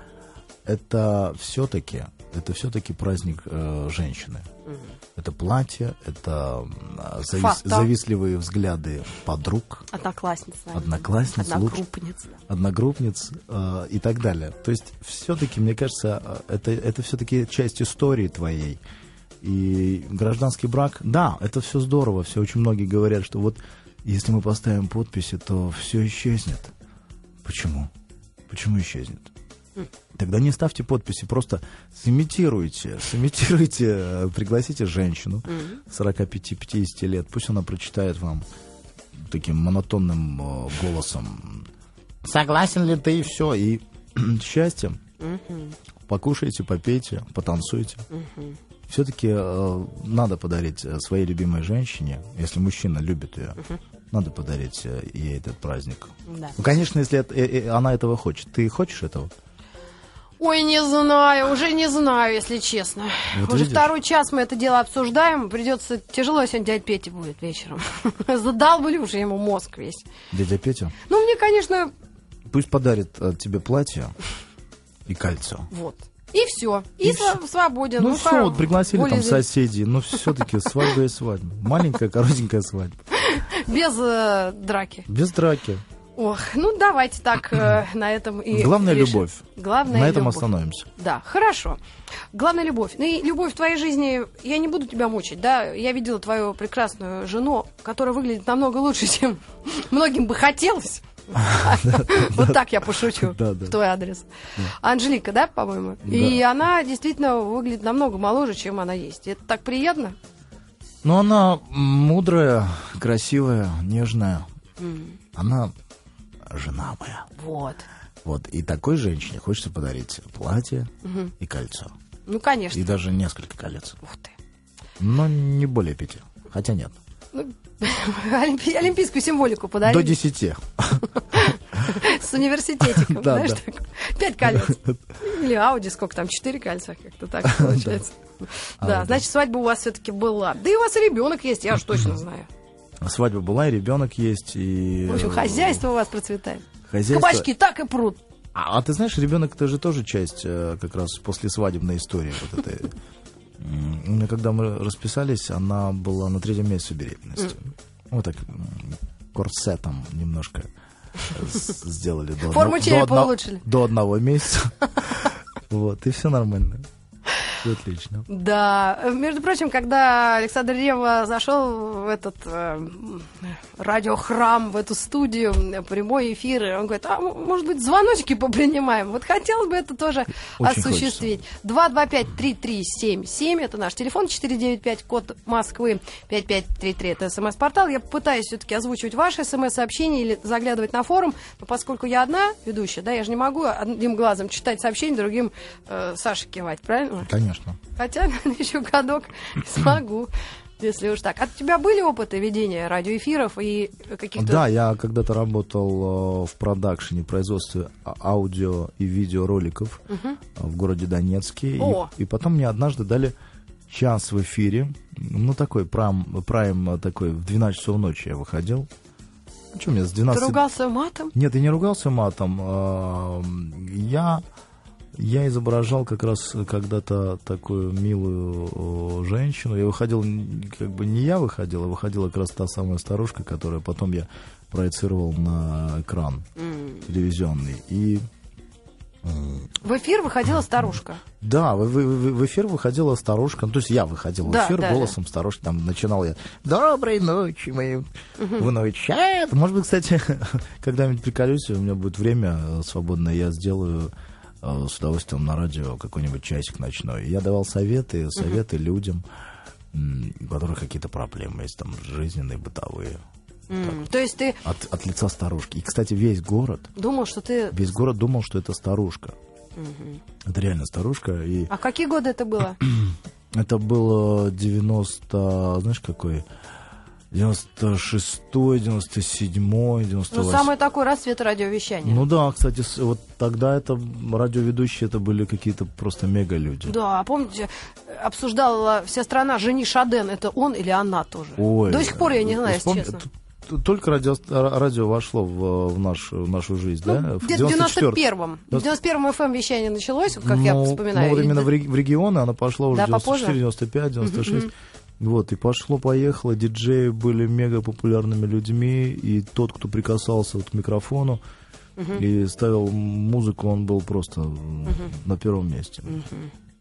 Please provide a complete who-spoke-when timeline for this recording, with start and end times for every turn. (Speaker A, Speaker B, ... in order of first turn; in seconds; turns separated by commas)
Speaker A: 0.6-4.5, Speaker B: 4.7-4.9, Speaker A: 5.2-9.8, Speaker B: 7.3-7.9, Speaker B: 9.9-12.4, Speaker A: 10.7-11.8, Speaker A: 12.5-18.8, Speaker A: 19.4-26.7, Speaker A: 27.4-27.9, Speaker A: 28.5-29.3, Speaker A: 30.1-38.4, Speaker B: 35.5-35.8, Speaker A: 39.1-41.7, Speaker A: 42.2-45.0, Speaker B: 45.2-45.8, Speaker A: 46.1-48.0, Speaker B: 48.1-48.6, Speaker A: 48.9-53.6, Speaker A: 54.1-59.3, Speaker B: 56.3-56.5, Speaker B: 60.4-70.0, Speaker A: 63.3-63.9, Speaker A: 70.3-70.9, Speaker B: 71.1-71.9, Speaker A: 72.5-74.1, Speaker A: 75.1-75.7, Speaker B: 75.7-79.5, Speaker A: 77.0-77.4, Speaker A: 78.0-83.0, Speaker B: 83.1-85.1, Speaker A: 85.1-85.8, Speaker B: 86.2-91.8, Speaker A: 88.5-90.9, Speaker B: 92.3-110.2, Speaker A: 101.3-103.8, Speaker A: 106.0-106.4, Speaker A: 111.0-114.5, Speaker B: 114.8-115.2, Speaker A: 115.3-115.7, Speaker A: 116.5-117.3, Speaker B: 117.4-117.8, Speaker A: 118.2-121.9, Speaker B: 121.0-121.3, Speaker B: 122.3-122.8, Speaker A: 122.7-124.0, Speaker B: 124.0-124.3, Speaker A: 125.0-127.0, Speaker B: 127.3-130.2, Speaker A: 129.8-131.1, Speaker B: 131.3-142.5, Speaker A: 132.8-133.6, Speaker A: 134.4-135.0, Speaker A: 137.4-138.0, Speaker A: 138.8-139.2, Speaker A: 143.0-145.8, Speaker B: 145.1-148.2, Speaker A: 146.9-147.5, Speaker A: 148.5-152.9, Speaker A: 153.6-160.7, Speaker A: 161.3-166.9, Speaker B: 162.4-163.6, Speaker A: 167.6-168.2, Speaker B: 168.3-197.3, Speaker A: 180.6-181.4, Speaker A: 197.2-197.8, Speaker B: 197.9-204.6, Speaker A: 204.3-210.0, Speaker B: 210.1-210.4, Speaker A: 210.5-213.3, Speaker B: 211.8-212.1, Speaker A: 213.9-218.9, Speaker A: 219.7-220.6, Speaker B: 220.3-221.3, Speaker A: 221.3-224.4, Speaker A: 225.1-236.5, Speaker B: 236.6-237.1, Speaker A: 237.1-238.3, Speaker A: 239.2-239.7, Speaker B: 239.8-241.2, Speaker A: 241.4-259.2, Speaker B: 244.4-245.1, Speaker B: 248.4-248.7, Speaker A: 259.9-263.2, Speaker B: 263.7-264.6, Speaker A: 263.7-264.0, Speaker A: 264.6-266.9, Speaker B: 267.0-267.8, Speaker A: 267.7-269.3, Speaker B: 269.8-270.2, Speaker A: 270.4-271.7, Speaker B: 271.7-272.8, Speaker A: 272.8-276.4, Speaker A: 277.3-280.7, Speaker B: 280.3-282.2, Speaker A: 282.0-287.0, Speaker B: 286.9-293.2, Speaker A: 291.6-298.9, Speaker B: 297.1-301.7, Speaker A: 300.4-311.4, Speaker B: 302.9-303.6, Speaker B: 304.2-304.7, Speaker B: 312.0-312.2, Speaker A: 312.1-316.2, Speaker B: 314.9-315.1, Speaker B: 316.1-316.5